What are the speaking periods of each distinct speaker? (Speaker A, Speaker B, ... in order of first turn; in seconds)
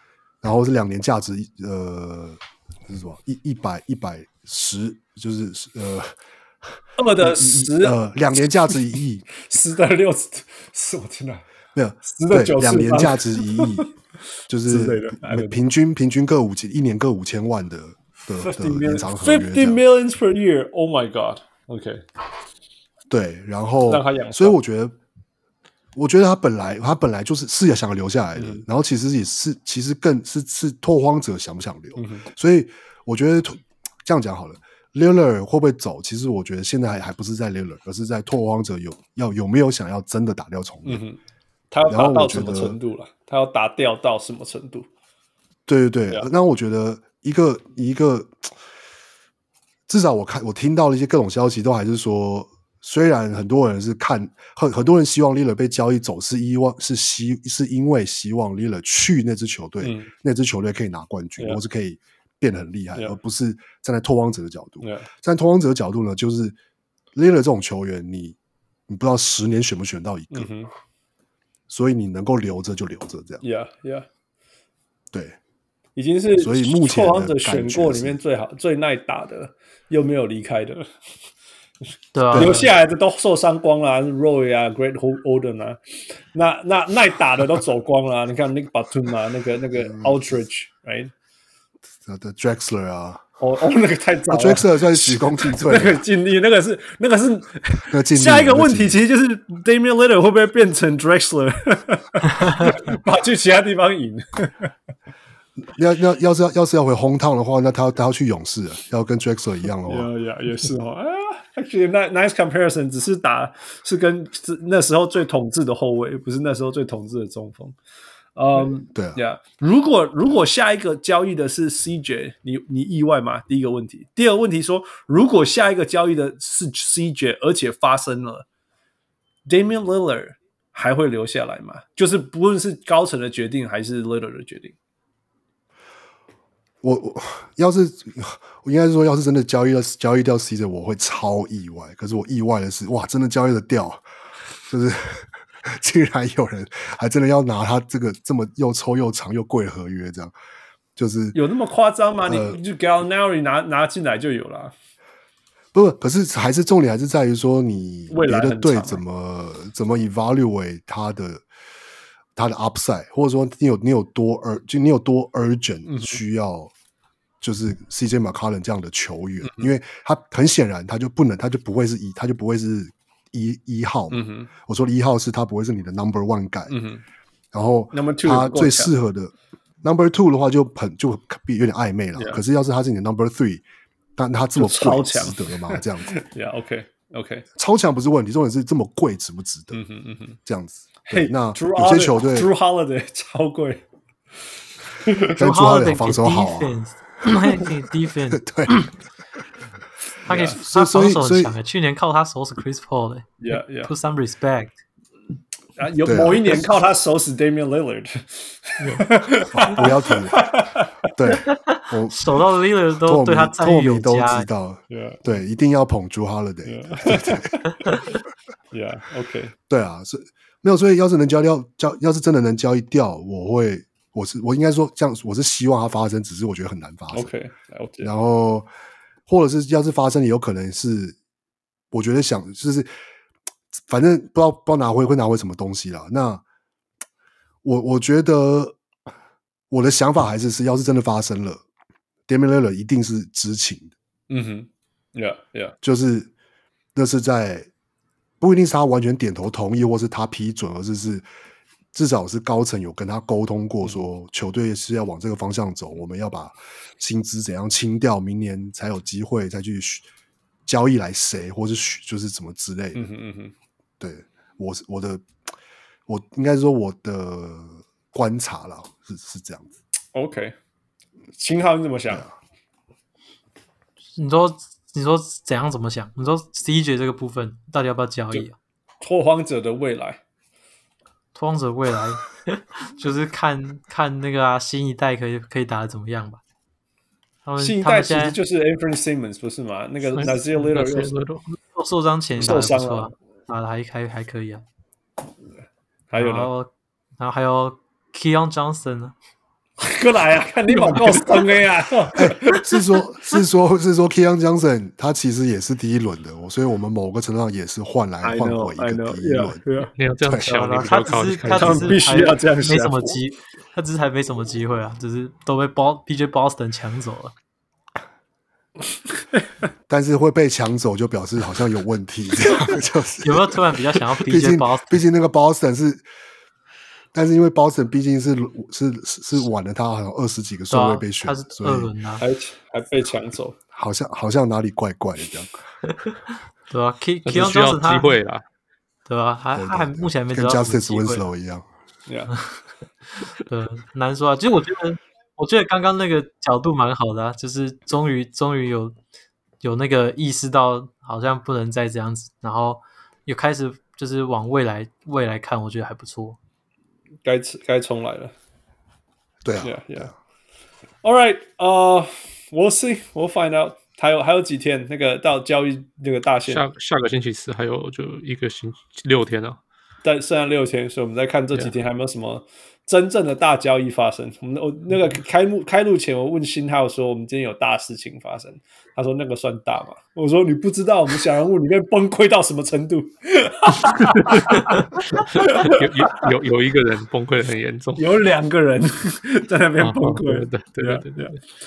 Speaker A: 0.4-6.1, 7.2-9.3, 11.8-13.9, 14.5-19.8, 23.1-25.0, 25.9-41.0, 41.9-42.8, 45.7-48.5, 49.9-66.6, 67.1-68.4, 68.9-70.5, 71.7-73.4, 75.1-75.4, 76.4-78.2, 82.3-82.6, 89.8-90.2, 92.0-93.2, 94.3-96.0, 97.9-99.0, 105.7-110.1, 118.9-119.2, 136.8-144.0, 144.7-150.3, 151.0-151.4, 152.3-152.6, 155.7-161.4, 162.4-166.7, 167.4-176.8, 177.5-183.6, 184.2-186.2, 187.6-189.8, 190.4-192.5, 195.3-197.7, 198.4-198.9, 200.5-201.6, 206.0-206.7, 209.5-210.6, 211.1-212.4, 213.0-217.7, 219.7-227.3, 228.0-228.7, 229.3-231.2, 231.9-232.9, 233.9-236.4, 237.6-238.8, 239.7-241.6, 242.3-243.9, 245.8-246.3, 246.9-247.7, 248.4-251.3, 251.9-260.1, 260.7-263.0, 264.0-265.2, 266.1-269.7, 272.1-272.4, 302.1-309.6, 310.3-310.6, 319.9-326.0, 327.1-331.9, 333.7-335.6, 339.6-341.7, 359.4-360.1
Speaker B: 7.0-8.0, 9.4-11.4, 12.0-13.9, 14.6-15.6, 18.4-22.1, 23.9-24.6, 28.4-28.6, 32.0-32.3, 40.9-41.2, 41.7-44.9, 59.8-60.1, 64.8-65.1, 70.3-70.7, 73.4-74.1, 76.0-80.9, 82.3-91.1, 93.4-104.7, 109.8-117.8, 118.4-128.5, 129.5-134.8, 151.3-154.7, 158.1-159.0, 165.9-166.2, 169.4-169.7, 174.1-174.5, 176.7-177.0, 177.9-178.9, 182.1-182.4, 184.6-187.5, 189.7-190.4, 191.1-193.8, 195.0-195.3, 200.3-200.6, 203.4-203.9, 205.8-211.3, 214.9-215.2, 216.6-218.0, 218.7-219.6, 227.1-228.1, 244.3-245.8, 262.9-263.5, 270.1-270.6, 271.4-272.2, 279.0-280.2, 287.6-291.1, 292.4-293.1, 296.1-296.5, 299.8-302.8, 308.2-309.9, 311.5-313.2, 332.2-333.6, 342.1-342.3, 357.2-358.3, 359.6-360.1, 361.0-366.6, 370.0-386.3, 388.0-391.4
Speaker C: 82.1-82.7, 195.4-198.9, 200.3-204.8, 211.4-214.5, 274.2-278.6, 281.4-286.4, 287.4-288.4, 291.5-294.6, 296.1-299.1, 310.4-317.3, 323.2-325.0, 330.7-332.2, 336.7-338.1, 339.1-341.2, 343.4-349.0, 349.6-356.4
Speaker D: 208.8-209.1, 290.1-291.4, 300.9-301.2, 310.0-312.0, 337.2-338.4, 366.5-369.6, 384.1-388.1, 389.8-391.4